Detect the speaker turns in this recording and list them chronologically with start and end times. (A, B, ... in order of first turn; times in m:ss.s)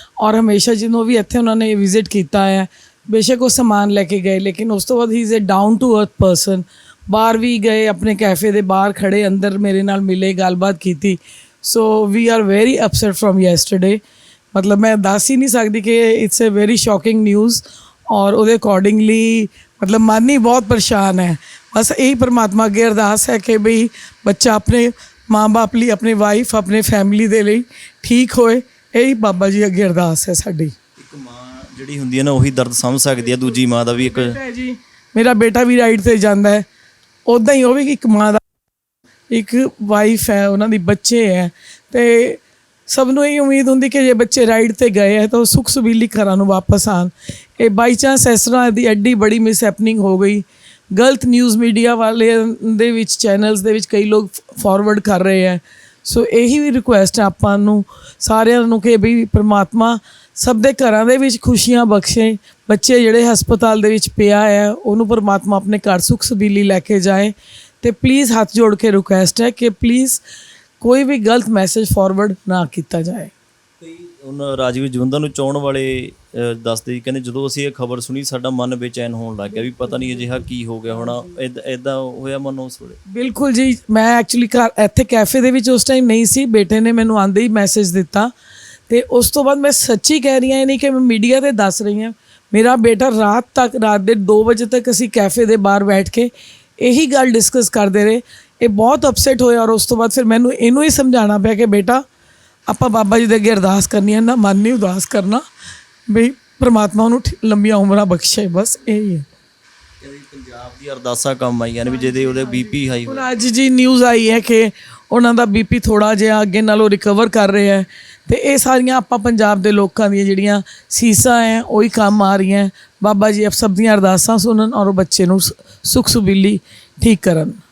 0:00.2-0:14.0 A
0:14.5-0:30.7 A
0:31.0-0:34.4 B
0:33.2-0:36.6 A
0:37.3-0:38.4 A
0:39.3-1:10.2 A
1:10.8-1:13.3 A
1:13.8-1:23.0 B
1:19.6-1:21.2 A
1:23.1-1:28.3 A
1:28.9-1:42.0 A
1:42.7-1:45.4 A
1:46.1-1:49.2 A
1:50.0-1:53.3 B
1:51.8-2:07.6 A